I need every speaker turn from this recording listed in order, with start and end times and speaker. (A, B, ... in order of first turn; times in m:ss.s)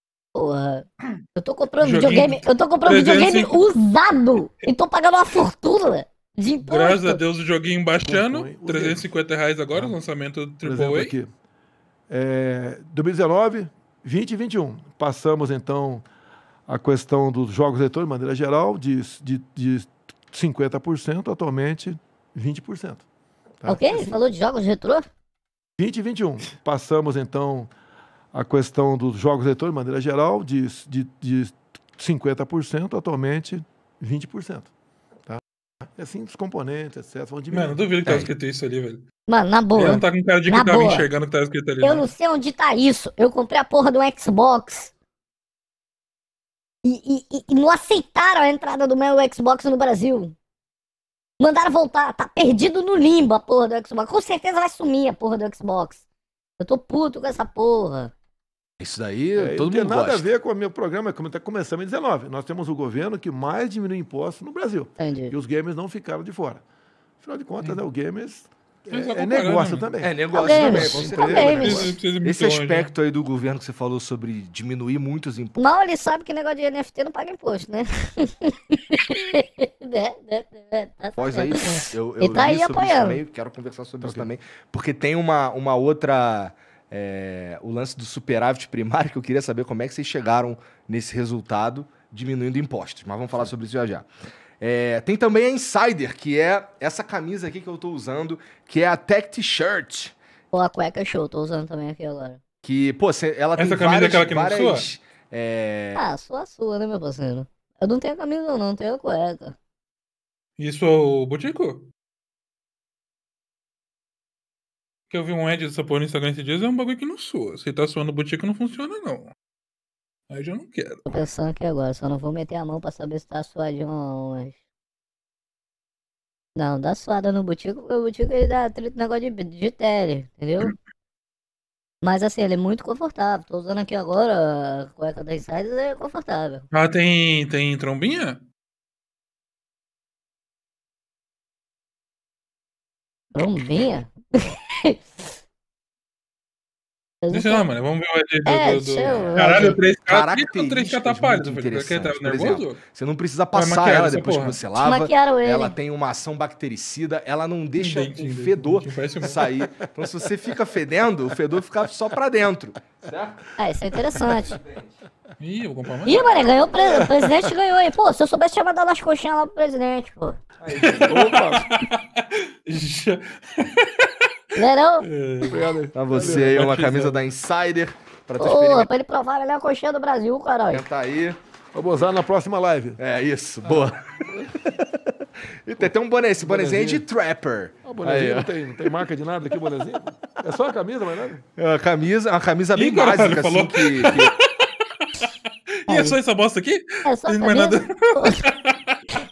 0:00.4-0:07.2 A
0:01.8-0:03.7 B
0:06.6-0:11.2 B
0:08.0-0:09.1 C
0:09.7-0:10.0 C
0:10.6-0:11.3 C
0:12.1-0:16.0 C
0:16.7-0:23.0 C
0:23.6-0:24.2 C
0:23.7-0:25.0 A
0:25.8-0:27.7 C
0:28.3-0:34.7 C
0:36.0-0:37.8 C
0:37.5-0:39.0 B
0:39.3-0:41.1 A
0:39.8-0:42.1 B
0:41.8-0:44.9 A
0:46.8-0:50.3 A
0:51.4-0:56.0 A
0:56.6-0:58.1 A
0:58.8-1:00.3 D
0:59.4-1:06.6 C
1:05.0-1:05.3 A
1:07.2-1:12.0 C
1:08.9-1:09.9 B
1:10.0-1:15.6 D
1:10.4-1:11.9 A
1:11.4-1:12.9 B
1:15.6-1:23.2 A
1:21.2-1:34.1 D
1:24.0-1:24.3 C
1:34.6-1:40.2 D
1:40.5-1:42.4 A
1:42.6-1:46.0 D
1:43.6-1:44.9 B
1:46.0-1:49.6 A
1:50.6-1:51.9 B
1:55.1-1:59.3 B
2:00.3-2:01.0 B
2:01.1-2:04.6 A
2:06.6-2:10.7 A
2:12.0-2:16.7 A
2:16.7-2:18.4 B
2:23.4-2:25.0 A
2:27.2-2:27.6 A
2:27.3-2:32.8 B
2:28.5-2:29.8 A
2:30.1-2:43.5 D
2:33.5-2:34.6 B
2:34.8-2:35.8 A
2:37.8-2:39.4 B
2:39.2-2:40.2 C
2:43.6-2:44.6 A
2:44.1-2:45.0 D
2:45.4-2:46.2 B
2:46.0-2:50.4 A
2:46.8-2:47.3 C
2:50.6-2:51.5 D
2:50.8-2:54.1 B
2:50.8-2:51.6 C
2:54.6-2:55.1 A
2:55.0-2:57.3 B
2:55.4-2:56.6 C
2:55.9-2:58.9 D
2:58.4-3:00.8 A
3:00.7-3:01.4 D
3:01.7-3:03.0 C
3:03.0-3:09.0 D
3:03.6-3:04.5 C
3:05.8-3:07.0 C
3:07.8-3:11.4 C
3:11.6-3:14.3 D
3:12.7-3:15.4 B
3:15.9-3:19.0 B
3:15.9-3:16.2 A
3:17.0-3:18.4 A